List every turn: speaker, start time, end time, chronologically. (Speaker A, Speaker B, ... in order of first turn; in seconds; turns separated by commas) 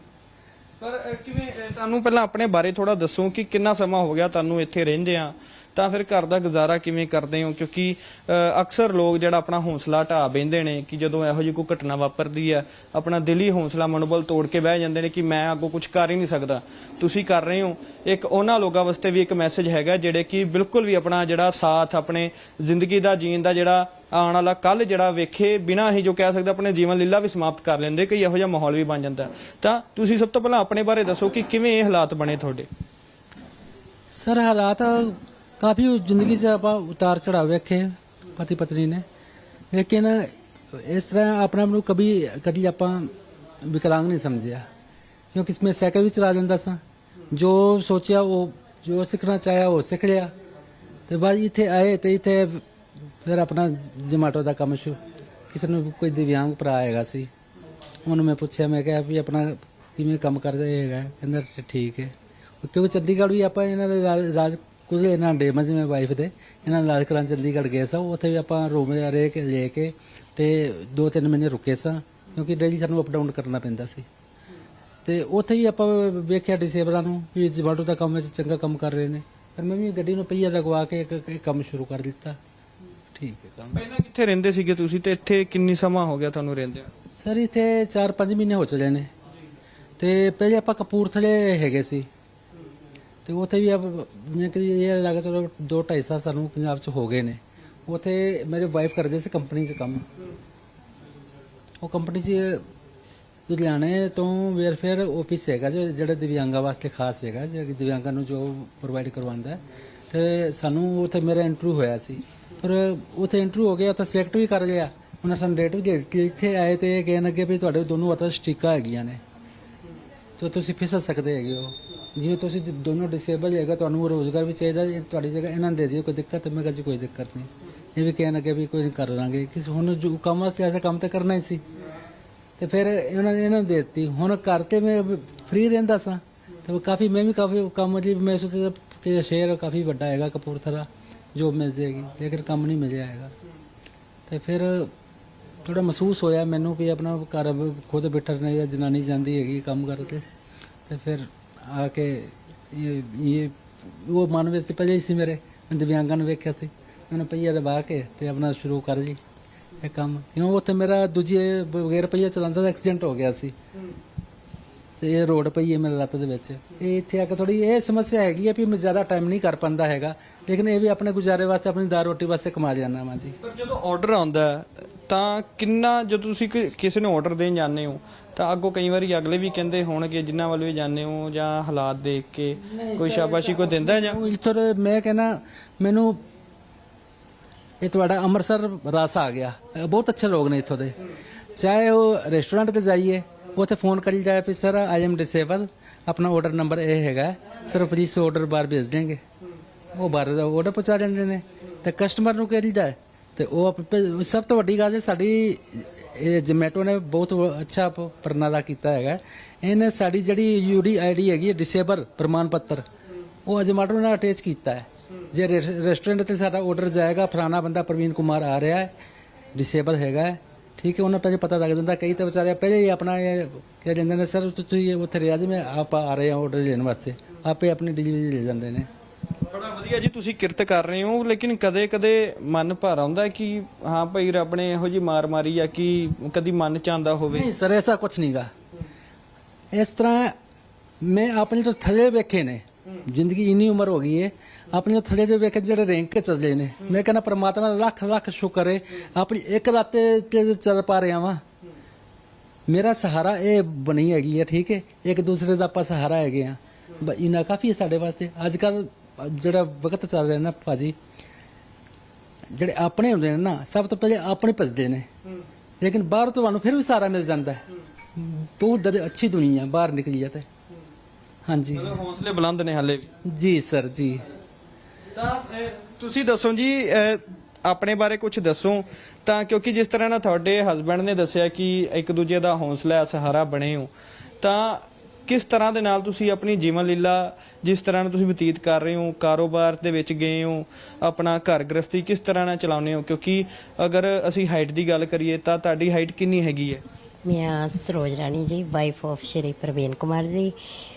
Speaker A: 0.8-32.7, Speaker B: 34.1-39.0, Speaker B: 39.7-43.1, Speaker B: 43.6-44.6, Speaker B: 45.3-46.8, Speaker B: 47.3-50.3, Speaker B: 51.1-52.6, Speaker B: 53.2-55.0, Speaker B: 55.5-57.3, Speaker B: 58.1-74.1, Speaker B: 75.0-82.4, Speaker B: 83.2-83.8, Speaker A: 83.7-86.9, Speaker B: 87.2-89.1, Speaker B: 90.0-92.1, Speaker B: 93.3-100.0, Speaker B: 101.8-102.6, Speaker B: 103.5-119.2, Speaker B: 120.4-131.6, Speaker B: 132.6-143.3, Speaker B: 144.3-144.9, Speaker B: 145.7-150.3, Speaker B: 150.9-159.2, Speaker B: 159.8-163.6, Speaker B: 165.0-173.4, Speaker A: 173.4-184.2, Speaker B: 182.7-186.2, Speaker B: 187.8-190.9, Speaker B: 191.6-199.2, Speaker B: 199.9-212.8, Speaker B: 213.5-218.9, Speaker B: 219.6-228.9, Speaker A: 229.5-237.5, Speaker B: 237.3-238.5, Speaker B: 239.7-240.3, Speaker B: 241.0-251.4, Speaker B: 252.7-261.0, Speaker B: 262.5-265.1, Speaker B: 265.8-267.6, Speaker B: 268.1-270.5, Speaker B: 271.5-272.0, Speaker A: 271.7-273.1, Speaker B: 273.2-274.2, Speaker A: 275.1-283.9, Speaker A: 284.4-296.8, Speaker C: 297.2-300.6